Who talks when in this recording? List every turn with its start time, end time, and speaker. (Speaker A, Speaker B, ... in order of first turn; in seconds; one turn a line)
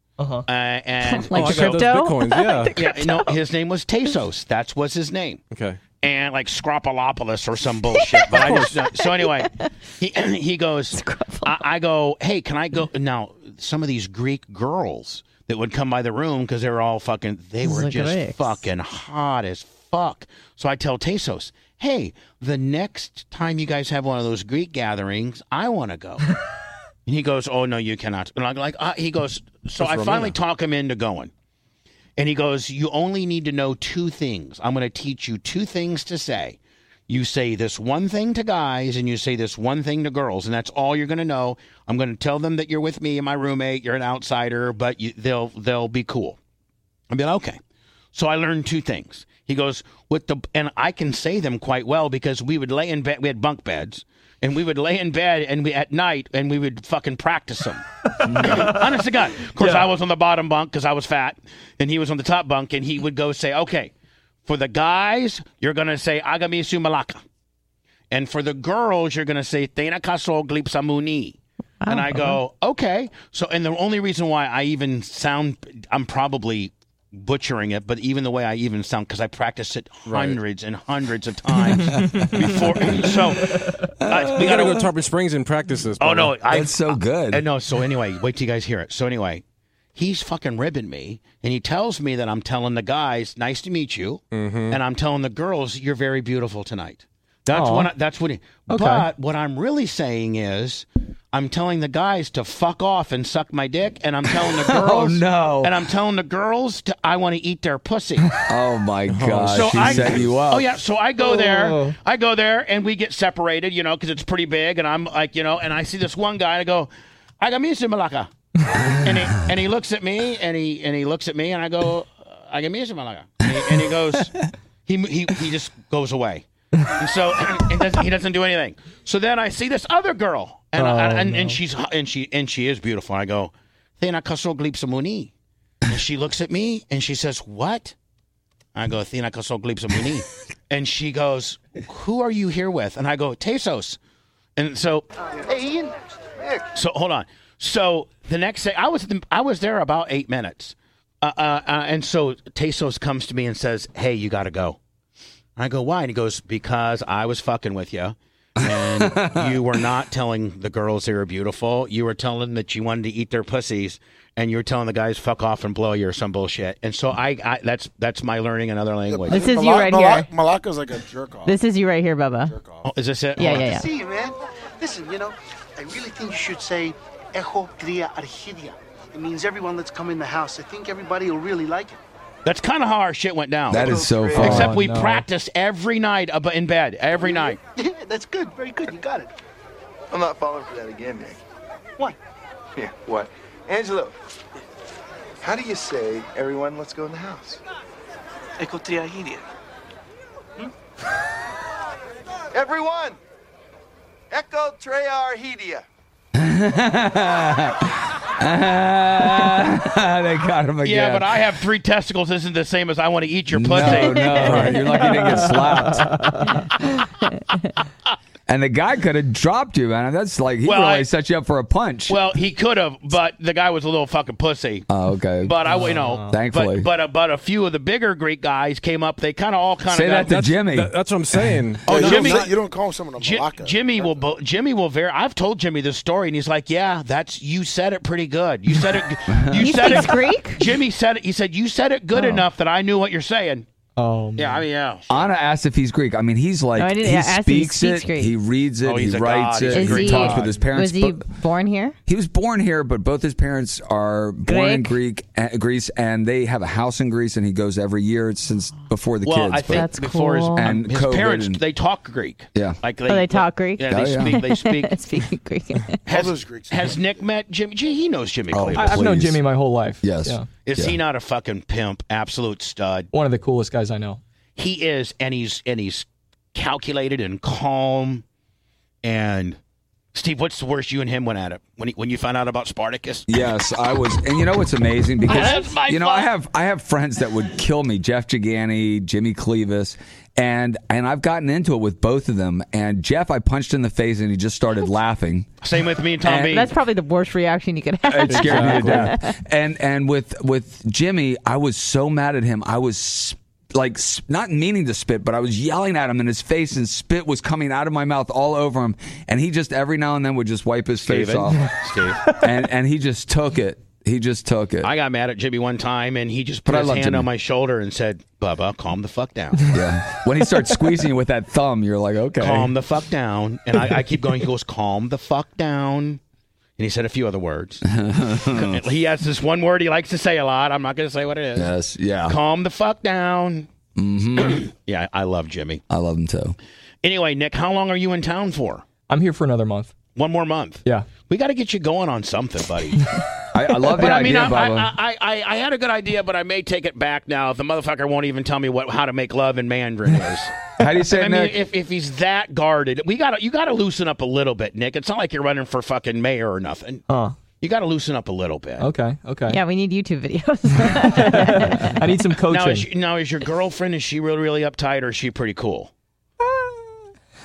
Speaker A: 0.2-0.4
Speaker B: 0.5-2.0
Speaker C: 1.0-3.4
Speaker D: 1.3-2.7
Speaker B: 2.7-5.4
Speaker D: 5.5-5.8
Speaker B: 6.0-26.2
Speaker C: 7.9-9.7
Speaker C: 10.9-11.6
Speaker C: 17.6-18.6
Speaker B: 27.1-31.3
Speaker D: 29.8-30.3
Speaker B: 32.2-46.4
Speaker B: 47.1-47.6
Speaker B: 48.1-57.8
Speaker E: 58.2-58.7
Speaker A: 58.4-58.7
Speaker B: 58.4-63.9
Speaker A: 59.6-59.8
Speaker B: 64.5-67.2
Speaker B: 68.1-83.5
Speaker C: 71.8-72.4
Speaker D: 80.1-80.4
Speaker E: 84.0-84.7
Speaker B: 84.1-84.9
Speaker D: 84.3-86.4
Speaker B: 86.0-89.4
Speaker E: 86.5-87.4
Speaker B: 89.9-108.3
Speaker D: 94.3-94.8
Speaker A: 97.5-97.9
Speaker A: 98.7-99.1
Speaker E: 104.4-105.8
Speaker E: 108.5-110.7
Speaker D: 109.1-110.3
Speaker B: 109.5-116.9
Speaker A: 111.2-111.9
Speaker B: 117.4-124.3
Speaker B: 124.8-126.4
Speaker B: 127.0-135.3
Speaker A: 130.8-131.6
Speaker B: 135.9-137.9
Speaker B: 138.7-144.0
Speaker B: 144.6-145.1
Speaker F: 145.4-146.6
Speaker B: 146.7-154.8
Speaker B: 155.6-169.5
Speaker E: 158.6-159.6
Speaker G: 169.1-171.5
Speaker C: 169.3-170.3
Speaker C: 171.4-172.6
Speaker G: 172.4-172.9
Speaker B: 172.8-173.7
Speaker C: 173.4-173.9
Speaker F: 173.6-182.0
Speaker B: 182.4-187.6
Speaker E: 183.7-184.7
Speaker H: 183.8-184.6
Speaker A: 184.3-185.2
Speaker F: 187.8-189.3
Speaker H: 190.1-191.4
Speaker H: 192.8-194.1
Speaker H: 195.4-197.6
Speaker H: 198.6-199.5
Speaker H: 202.5-203.2
Speaker H: 204.3-205.8
Speaker E: 206.4-211.3
Speaker B: 210.8-214.7
Speaker E: 213.5-216.1
Speaker C: 213.8-216.7
Speaker E: 218.5-222.2
Speaker B: 220.6-221.1
Speaker B: 222.1-224.9
Speaker E: 224.9-225.6
Speaker B: 225.4-230.3
Speaker A: 225.7-226.3
Speaker E: 226.3-226.9
Speaker E: 229.9-230.9
Speaker D: 230.2-232.5
Speaker G: 231.8-234.3
Speaker B: 231.9-232.5
Speaker B: 233.2-243.7
Speaker C: 239.5-240.7
Speaker A: 244.0-244.6
Speaker B: 244.3-245.3
Speaker E: 245.1-251.3
Speaker C: 246.8-248.3
Speaker B: 248.8-250.6
Speaker C: 249.7-252.0
Speaker E: 252.1-259.9
Speaker C: 254.4-255.0
Speaker B: 259.2-265.0
Speaker C: 259.7-260.7
Speaker E: 260.5-261.6
Speaker C: 263.1-266.0
Speaker E: 263.9-264.4
Speaker G: 266.1-267.3
Speaker B: 266.1-269.2
Speaker E: 268.5-269.4
Speaker A: 268.7-270.5
Speaker E: 270.0-271.0
Speaker B: 270.6-273.1
Speaker A: 273.1-274.2
Speaker B: 274.6-278.2
Speaker B: 279.0-279.6
Speaker B: 280.1-283.3
Speaker E: 283.3-295.5
Speaker B: 285.3-286.3
Speaker B: 295.6-296.7
Speaker C: 296.2-299.4
Speaker E: 298.1-311.6
Speaker D: 298.3-299.1
Speaker B: 311.1-312.2
Speaker E: 312.4-314.9
Speaker B: 314.8-319.7
Speaker E: 316.7-317.3
Speaker E: 319.7-322.7
Speaker A: 320.5-320.7
Speaker B: 322.4-326.2
Speaker B: 326.8-327.8
Speaker E: 327.9-328.8
Speaker B: 328.5-331.7
Speaker E: 331.6-332.4
Speaker B: 332.2-333.7
Speaker E: 333.9-334.7
Speaker B: 334.4-335.8
Speaker E: 335.9-336.6
Speaker B: 337.0-338.8
Speaker A: 339.1-339.9
Speaker B: 340.1-343.1
Speaker E: 343.5-344.9
Speaker B: 343.9-350.5
Speaker E: 350.8-351.6
Speaker B: 351.1-357.0
Speaker A: 357.1-357.4
Speaker B: 357.6-358.9
Speaker A: 358.8-359.6
Speaker C: 359.5-362.0
Speaker A: 360.9-362.9
Speaker B: 362.5-365.9
Speaker A: 366.4-366.8